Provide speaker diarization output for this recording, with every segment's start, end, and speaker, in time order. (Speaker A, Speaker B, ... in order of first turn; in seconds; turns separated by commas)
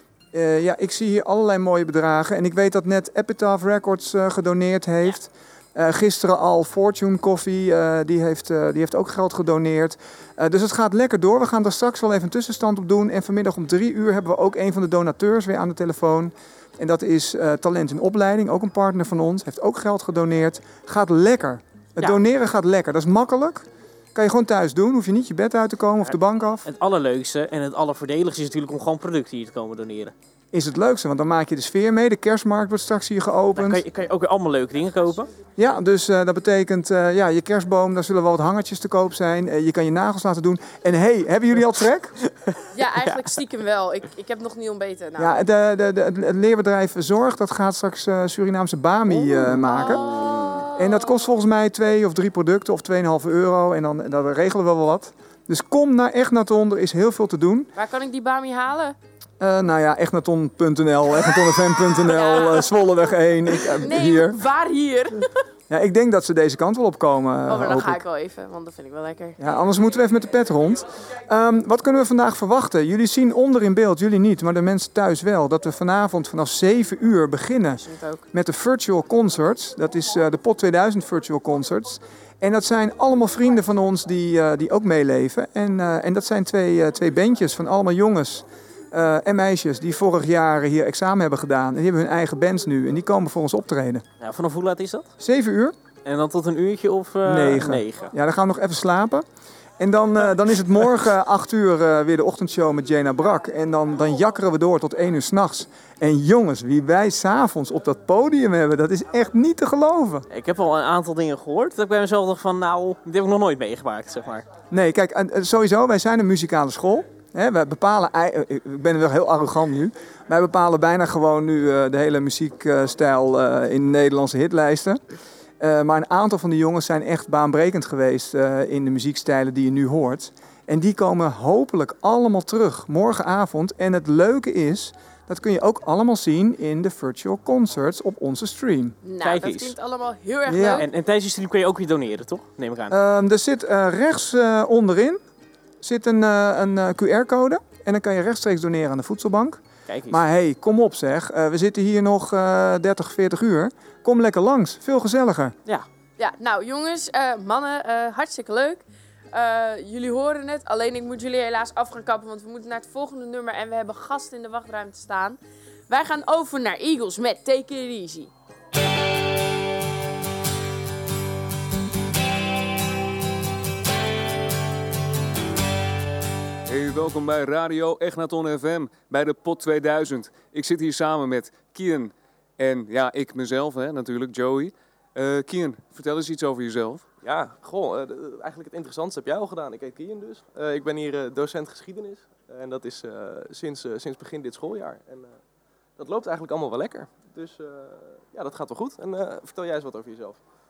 Speaker A: 0.3-26.7, Speaker B: 26.7-30.1, Speaker A: 30.5-33.8, Speaker B: 33.5-35.3, Speaker A: 35.6-42.1, Speaker C: 42.7-45.4, Speaker A: 45.2-50.2, Speaker C: 49.2-51.1, Speaker A: 50.8-57.7, Speaker C: 57.8-59.0, Speaker A: 59.4-64.4, Speaker C: 62.0-62.9, Speaker C: 63.6-65.3, Speaker A: 65.7-68.0, Speaker C: 67.5-69.4, Speaker A: 69.4-94.0, Speaker C: 77.8-78.2, Speaker B: 94.2-95.1, Speaker A: 95.2-95.8, Speaker B: 96.0-98.1, Speaker A: 97.2-99.3, Speaker A: 99.8-110.3, Speaker B: 110.3-114.5, Speaker A: 114.7-125.0, Speaker A: 125.6-139.0, Speaker C: 139.0-140.9, Speaker B: 139.2-139.8, Speaker A: 140.5-140.9, Speaker B: 140.8-142.9, Speaker A: 142.9-145.2, Speaker A: 145.8-155.6, Speaker B: 149.9-150.2, Speaker C: 156.2-165.4, Speaker C: 165.9-168.3, Speaker D: 176.7-187.1, Speaker E: 187.2-195.4, Speaker E: 196.0-200.4